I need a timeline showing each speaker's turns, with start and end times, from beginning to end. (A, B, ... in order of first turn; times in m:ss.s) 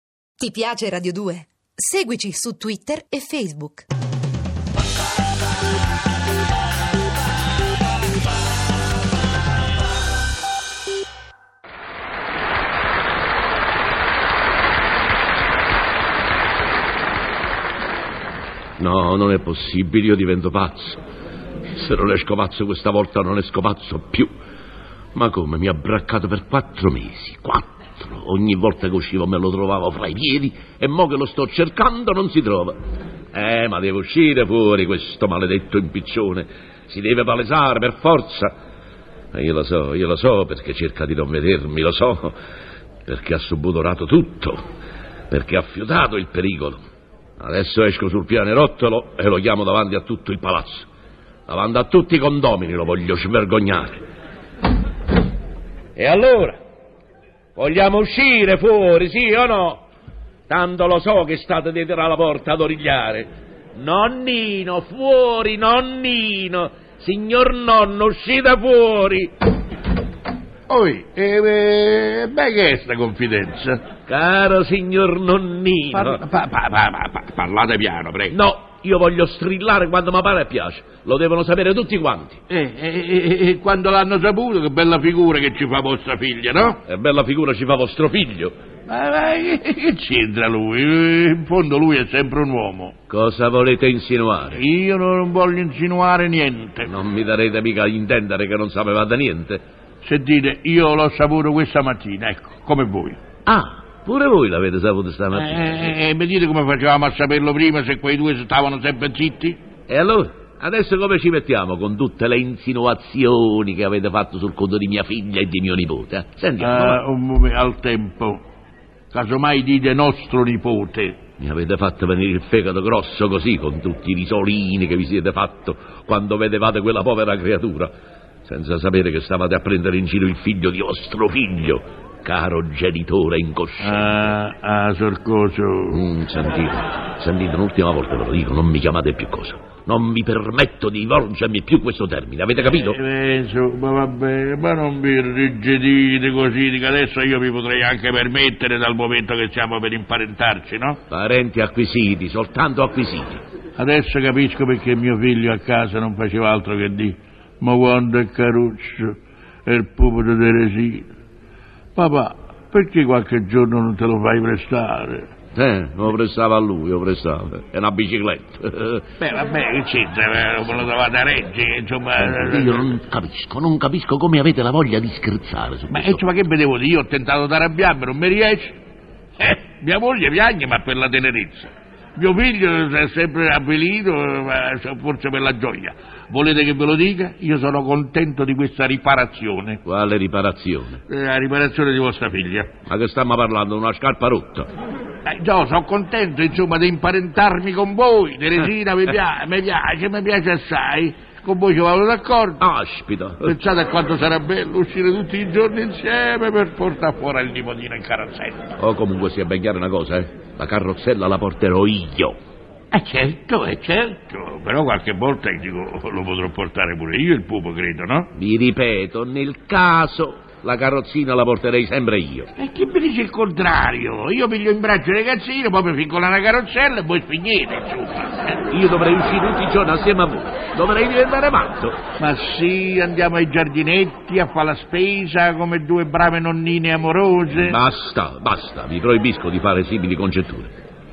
0:00.4-0:03.9 A
0:18.8-0:21.0 B
0:21.7-0:24.3 B
0:25.1-0:32.8 B
0:33.3-0:38.5 B
0:39.3-0:42.4 B
0:43.0-0:44.6 B
0:45.3-0:46.8 B
0:47.4-0:50.9 B
0:51.5-0:54.0 B
0:56.0-0:56.6 B
0:57.6-0:59.8 B
1:00.5-1:09.3 B
1:10.7-1:13.8 C
1:14.1-1:16.2 B
1:15.9-1:18.3 C
1:18.3-1:22.4 B
1:22.5-1:26.8 C
1:26.8-1:28.5 B
1:28.9-1:32.9 C
1:33.1-1:34.6 B
1:34.5-1:36.9 C
1:36.8-1:39.6 B
1:40.0-1:43.2 C
1:43.4-1:46.0 B
1:45.3-1:49.6 C
1:49.9-1:57.0 B
1:56.6-1:58.4 C
1:59.1-2:01.2 C
2:01.4-2:07.9 B
2:08.4-2:14.2 B
2:13.8-2:16.0 C
2:15.9-2:23.0 B
2:22.8-2:31.0 C
2:31.1-2:33.4 B
2:33.8-2:41.1 C
2:42.0-2:45.3 C
2:45.5-2:49.0 B
2:49.2-2:52.9 C
2:52.2-2:56.2 B
2:55.9-2:58.8 C
2:59.4-3:09.8 C
3:09.8-3:11.0 B
3:11.1-3:12.7 C
3:12.8-3:14.7 B
3:15.2-3:22.6 C
3:22.6-3:23.5 B
3:23.4-3:28.7 C
3:28.8-3:32.3 B
3:32.9-3:38.3 C
3:38.3-3:42.5 B
3:42.6-3:48.8 C
3:48.7-3:52.0 B
3:52.2-3:57.8 C
3:57.5-4:00.7 B